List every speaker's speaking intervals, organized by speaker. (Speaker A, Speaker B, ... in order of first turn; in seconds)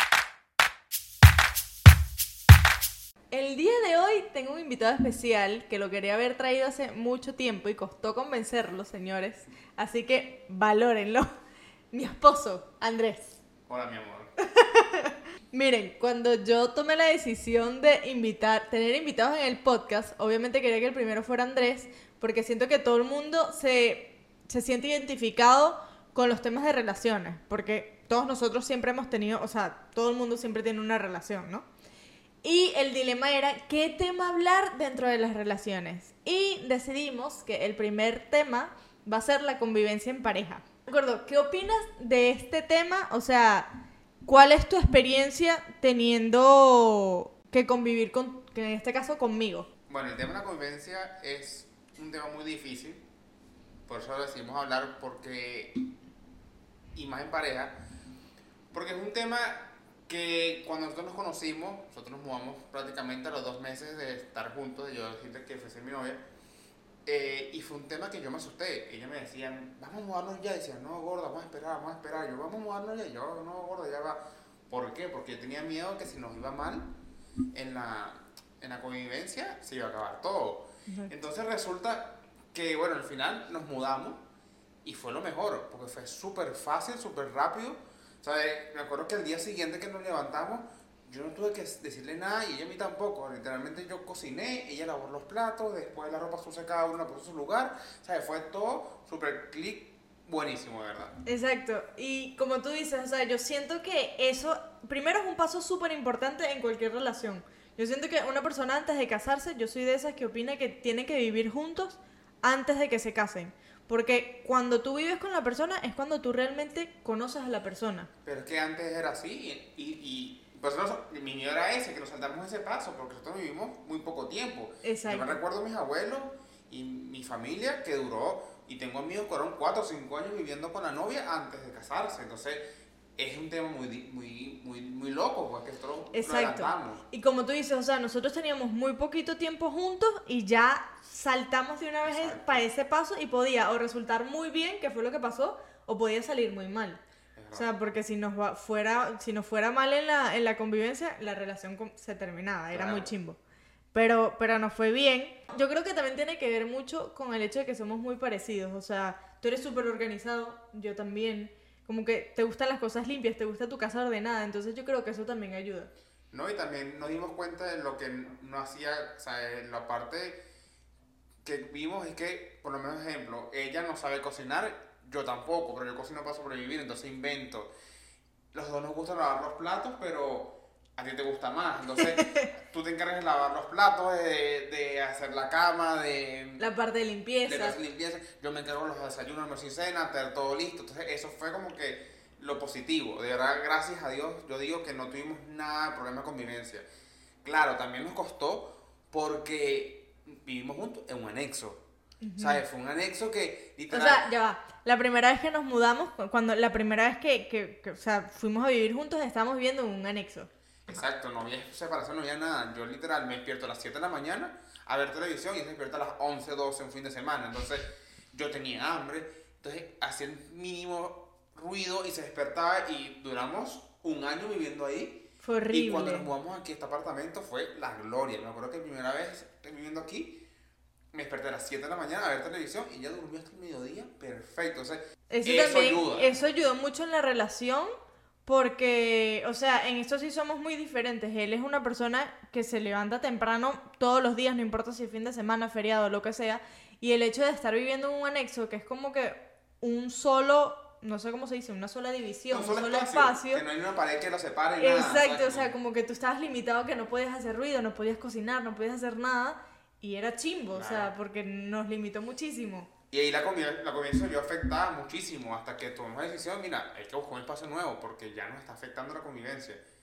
Speaker A: 3.3-11.3, 11.9-13.4, 14.4-31.6, 32.4-43.7, 44.3-49.7, 101.2-118.1, 124.8-125.4, 136.1-147.0, 147.5-153.4, 153.9-165.9, 186.6-187.8, 202.2-202.6, 203.9-210.5, 225.4-226.3, 235.3-237.9, 238.4-253.6, 254.8-262.9
Speaker B: 13.7-14.3, 49.9-53.0, 53.9-55.7, 56.9-57.8, 58.7-66.2, 67.0-76.9, 77.5-84.2, 84.8-101.1, 118.2-132.6, 133.2-137.1, 142.0-142.6, 147.3-147.7, 152.7-153.1, 166.3-170.4, 171.4-177.7, 178.5-186.6, 187.5-196.8, 197.4-201.8, 202.4-204.2, 210.9-230.4, 231.1-236.4, 252.5-255.7, 260.7-261.1, 263.1-269.8